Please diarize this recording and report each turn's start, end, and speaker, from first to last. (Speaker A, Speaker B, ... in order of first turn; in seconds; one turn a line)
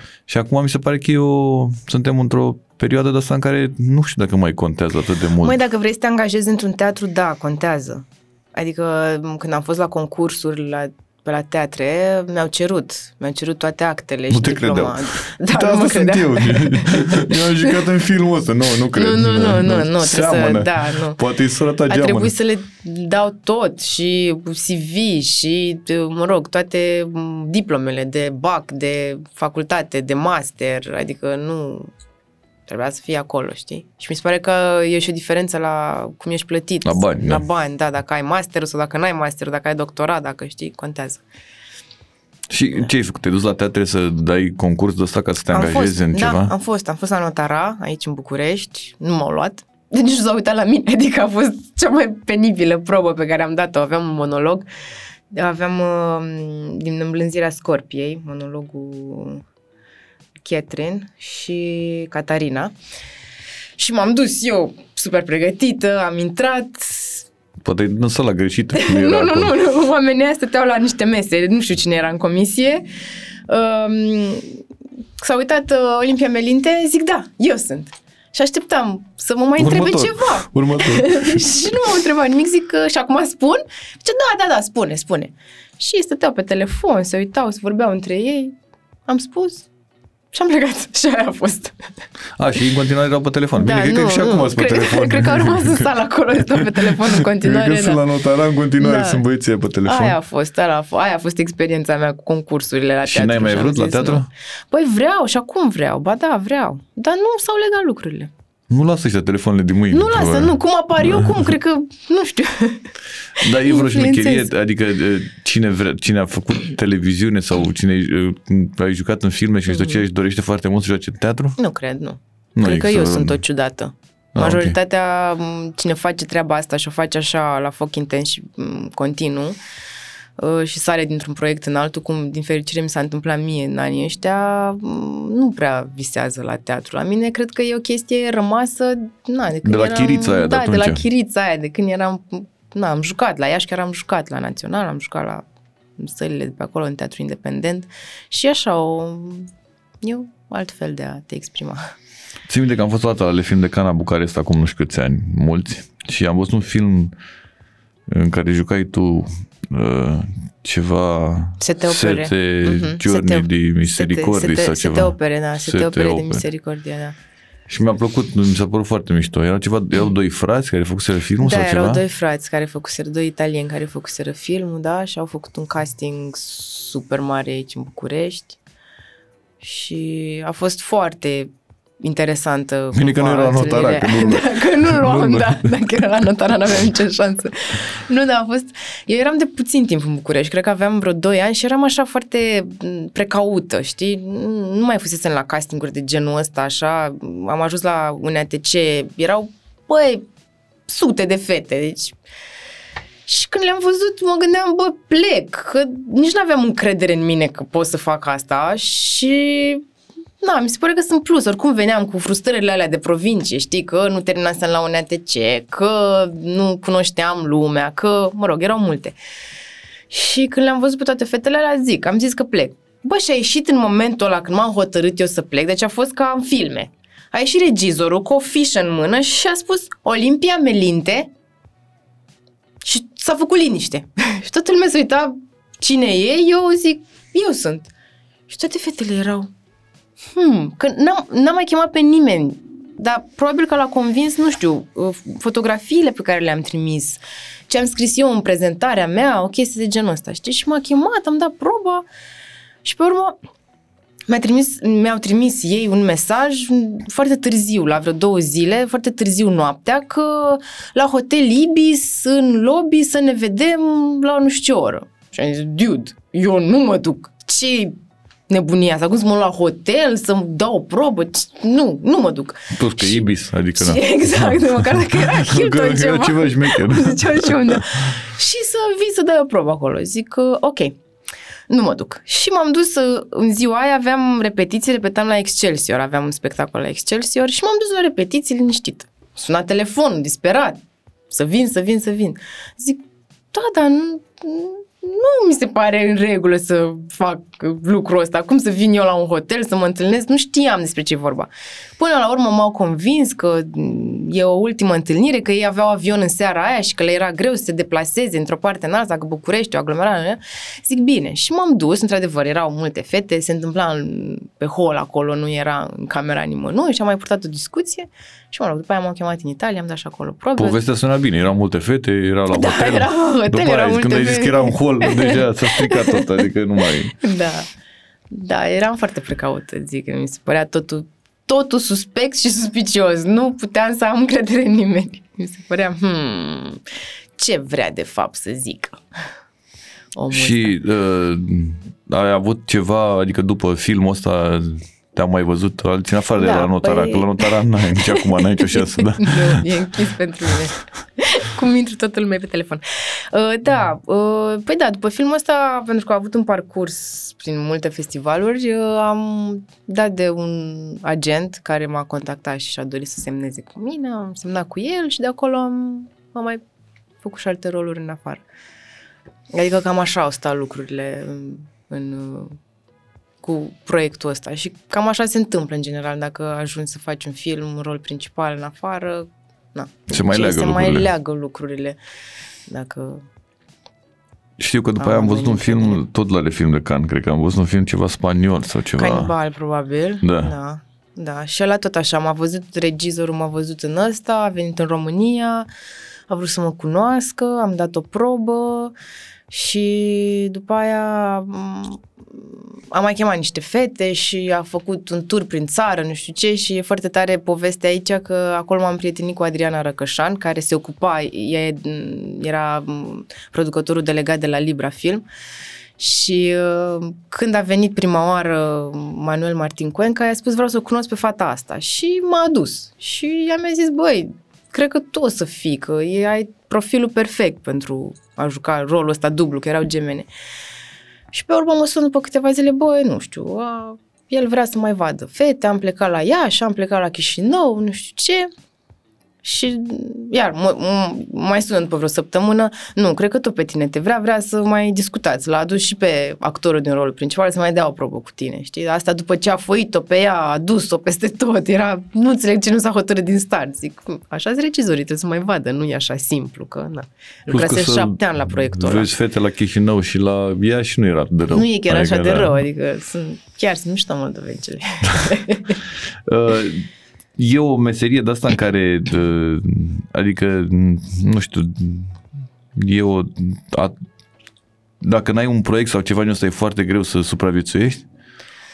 Speaker A: 0.3-5.6
Speaker B: 5.4-17.9
Speaker A: 14.3-22.3
Speaker B: 18.8-21.2
Speaker B: 21.9-31.9
Speaker B: 32.7-41.2
Speaker A: 36.9-37.4
Speaker A: 42.5-46.5
Speaker B: 45.5-54.7
Speaker B: 55.3-59.4
Speaker B: 60.4-62.7
Speaker B: 63.8-67.3
Speaker A: 67.6-69.5
Speaker B: 68.7-72.8
Speaker B: 73.5-74.6
Speaker B: 75.2-88.6
Speaker A: 79.6-81.5
Speaker B: 89.1-89.7
Speaker B: 90.3-91.9
Speaker A: 92.4-95.9
Speaker B: 93.6-98.0
Speaker A: 96.5-100.2
Speaker B: 98.8-99.2
Speaker B: 99.8-108.3
Speaker A: 103.0-104.3
Speaker A: 108.7-111.4
Speaker B: 109.9-114.5
Speaker A: 113.4-121.6
Speaker B: 119.7-120.0
Speaker B: 121.6-129.6
Speaker A: 122.6-123.4
Speaker A: 124.4-124.8
Speaker B: 130.4-145.4
Speaker A: 139.6-141.0
Speaker B: 146.0-149.5
Speaker B: 150.0-151.8
Speaker A: 152.5-157.2
Speaker A: 158.1-166.4
Speaker B: 161.6-167.2
Speaker A: 167.7-172.0
Speaker B: 171.4-178.6
Speaker B: 179.6-200.3
Speaker A: 182.9-186.0
Speaker B: 200.9-202.2
Speaker B: 203.3-209.8
Speaker B: 210.4-219.2
Speaker B: 220.1-231.3
Speaker B: 232.8-237.9
Speaker B: 238.5-239.5
Speaker B: 240.3-252.1
Speaker B: 252.8-253.4
Speaker B: 254.3-267.9
Speaker B: 268.5-273.2
Speaker A: 272.7-278.0
Speaker B: 273.8-281.0
Speaker B: 281.7-290.8
Speaker B: 291.3-320.8
Speaker A: 320.6-327.2
Speaker B: 322.5-326.3
Speaker B: 327.2-327.7
Speaker B: 328.3-336.8
Speaker B: 337.4-339.0
Speaker B: 340.2-340.8
Speaker A: 340.3-349.7
Speaker B: 346.4-347.5
Speaker B: 348.1-366.6
Speaker B: 367.2-368.4
Speaker B: 369.5-372.6
Speaker B: 373.4-382.0
Speaker A: 380.1-381.1
Speaker B: 382.7-383.2
Speaker A: 384.6-389.3
Speaker B: 385.0-386.0
Speaker B: 389.0-395.7
Speaker A: 390.2-390.5
Speaker B: 396.3-398.9
Speaker B: 399.5-415.2
Speaker B: 416.0-430.3
Speaker B: 431.3-438.5
Speaker B: 439.4-459.1
Speaker A: 457.5-462.6
Speaker B: 461.5-465.8
Speaker A: 466.3-472.1
Speaker A: 472.8-473.9
Speaker A: 475.0-478.1